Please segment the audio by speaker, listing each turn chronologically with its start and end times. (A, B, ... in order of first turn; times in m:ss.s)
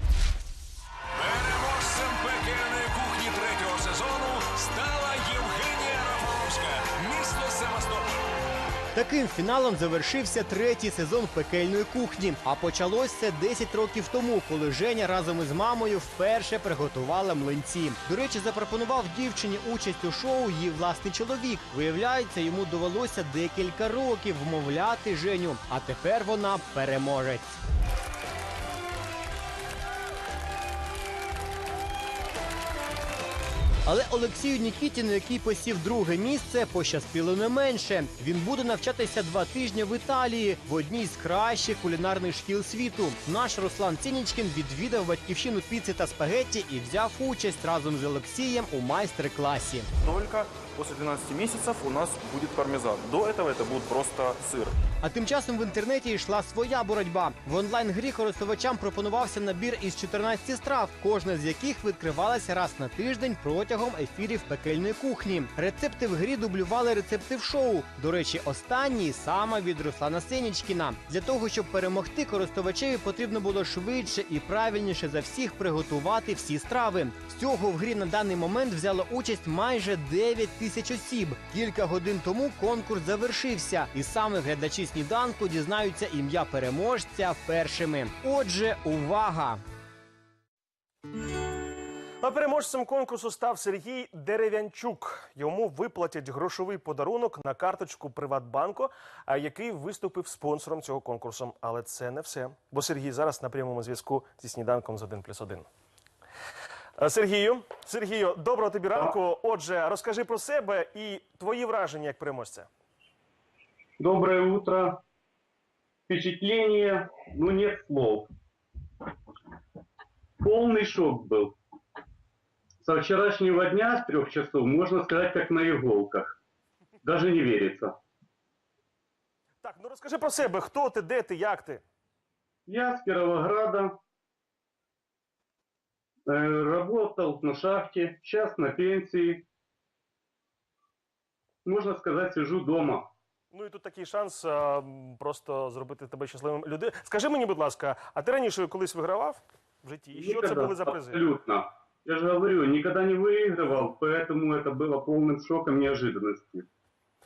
0:01.2-0:08.2 A
0:09.0-0:27.6 B
0:33.9-0:49.9 B
0:50.0-0:54.8 C
0:55.0-1:29.6 B
1:32.2-1:45.7 D
1:47.0-1:52.7 D
1:54.0-1:55.0 E
1:56.1-1:58.3 E
2:00.4-2:01.6 E
2:02.8-2:06.4 E
2:07.0-2:07.9 E
2:09.6-2:11.8 D
2:12.7-2:14.0 E
2:16.3-2:19.5 E
2:21.6-2:23.1 E
2:23.5-2:31.2 D
2:30.1-2:36.7 E